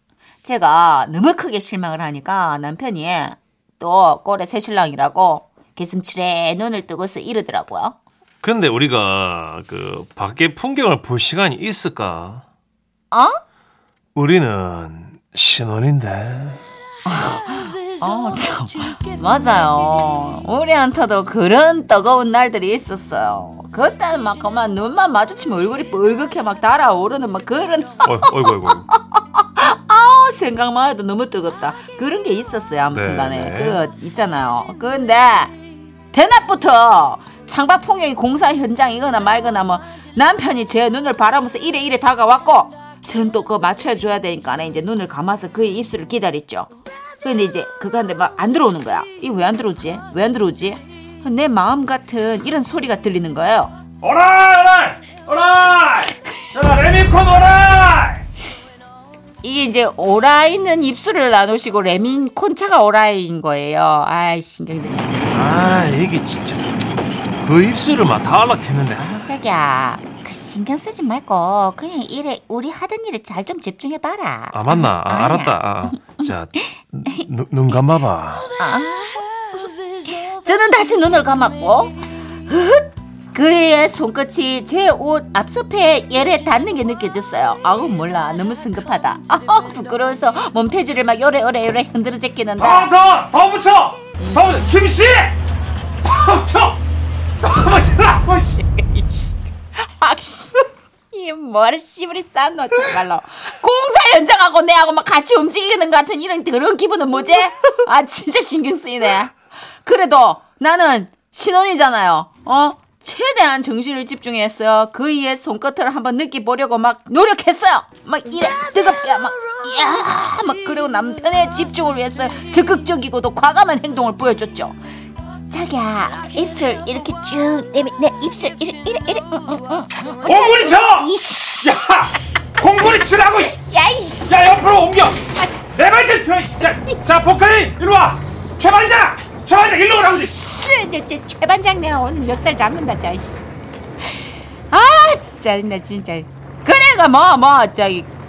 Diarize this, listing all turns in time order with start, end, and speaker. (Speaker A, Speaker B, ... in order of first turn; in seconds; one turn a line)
Speaker A: 0.4-8.0
Speaker B: 8.4-12.4
Speaker A: 13.1-13.4
Speaker B: 14.2-16.6
Speaker A: 17.1-35.5
Speaker B: 28.0-28.9
Speaker B: 32.9-33.8
Speaker A: 36.1-46.7
Speaker A: 47.2-53.7
Speaker B: 54.0-58.2
Speaker A: 59.4-65.2
Speaker B: 65.3-66.8
Speaker B: 67.4-69.3
Speaker A: 69.2-76.2
Speaker B: 74.5-78.6
Speaker A: 78.6-79.3
Speaker A: 80.1-92.9
Speaker B: 92.6-95.3
Speaker A: 94.2-94.5
Speaker B: 96.0-96.8
Speaker B: 97.4-98.7
Speaker A: 99.8-124.8
Speaker A: 125.5-131.8
Speaker B: 130.2-133.6
Speaker A: 133.5-134.4
Speaker B: 134.3-140.5
Speaker A: 140.2-143.4
Speaker A: 144.7-148.1